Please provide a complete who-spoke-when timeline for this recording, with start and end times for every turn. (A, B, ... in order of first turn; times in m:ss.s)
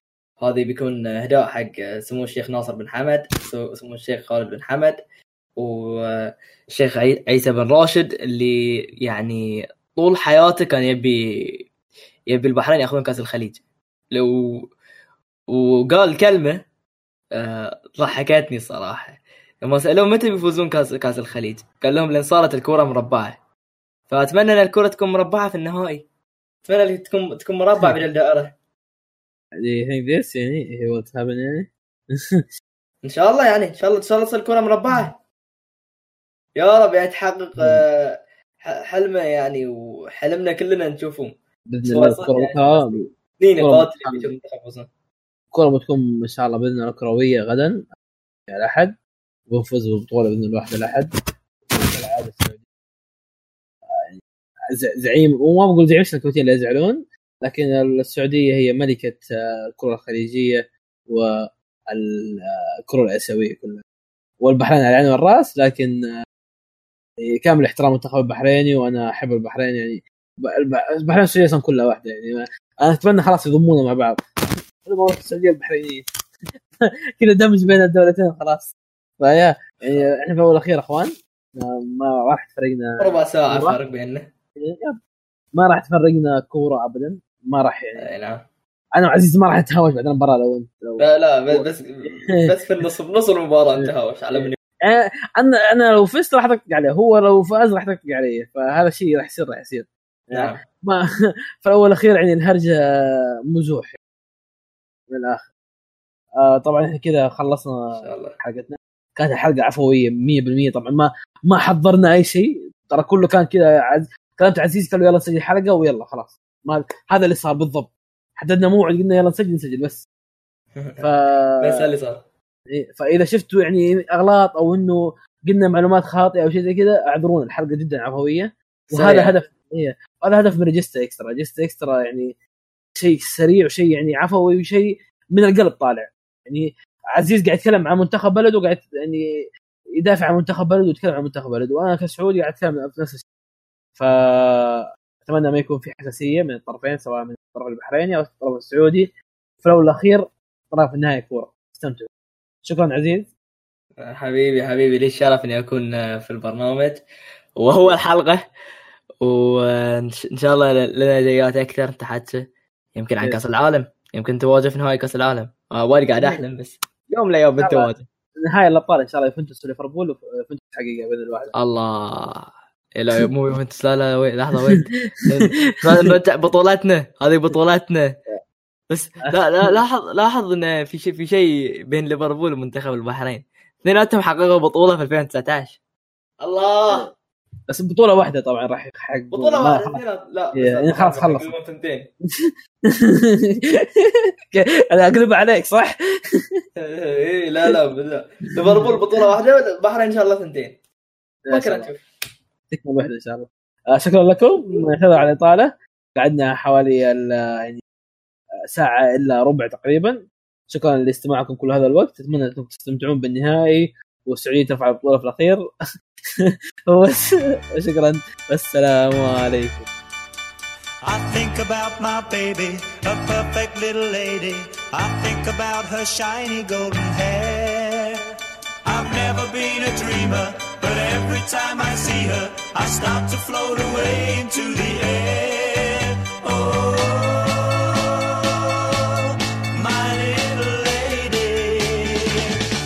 0:00.4-0:05.0 A
0:05.6-0:09.4 A
0:09.9-0:11.6 A
0:12.3-0:13.6 A
0:14.1-0:14.6 A
0:15.5-0:16.6 A
0:17.3-0:23.4 A
0:24.1-0:26.0 A
0:26.6-0:28.5 A
0:29.6-0:32.4 B
0:33.0-0:35.1 A
0:36.6-0:41.3 A
0:37.6-0:37.8 B
0:41.7-0:44.3 B
0:41.8-0:44.9 A
0:45.5-0:47.8 B
0:48.5-0:49.0 B
0:49.5-0:51.1 B
0:51.7-0:52.6 B
0:54.7-1:03.8 B
1:04.4-1:06.1 B
1:07.2-1:14.2 B
1:14.8-1:16.0 B
1:17.2-1:23.8 B
1:19.8-1:20.1 A
1:23.0-1:24.3 A
1:24.6-1:25.0 B
1:25.5-1:28.0 B
1:28.0-1:28.4 A
1:28.9-1:32.2 B
1:31.0-1:34.6 A
1:33.8-1:41.0 B
1:40.3-1:40.6 A
1:41.6-1:44.0 B
1:45.1-1:45.5 B
1:46.4-2:00.0 B
1:48.0-1:48.4 A
2:00.8-2:01.1 A
2:01.0-2:01.9 B
2:01.6-2:02.2 A
2:02.7-2:12.3 B
2:08.9-2:09.3 A
2:13.0-2:19.2 B
2:20.0-2:23.2 B
2:24.0-2:32.1 B
2:32.6-2:33.3 B
2:34.0-2:37.0 A
2:37.6-2:38.4 A
2:39.2-2:42.4 A
2:42.9-2:48.0 A
2:47.6-2:47.9 B
2:48.4-2:51.5 B
2:51.5-2:58.2 A
2:58.9-3:05.8 A
2:59.2-2:59.6 B
3:06.4-3:07.1 A
3:07.7-3:10.0 B
3:09.3-3:12.1 A
3:10.6-3:11.5 B
3:12.4-3:15.9 B
3:16.8-3:20.8 A
3:18.7-3:19.0 B
3:21.5-3:21.9 B
3:21.5-3:22.0 A
3:22.7-3:27.8 B
3:28.7-3:35.6 B
3:36.4-3:39.9 B
3:41.0-3:48.2 C
3:48.8-4:02.5 C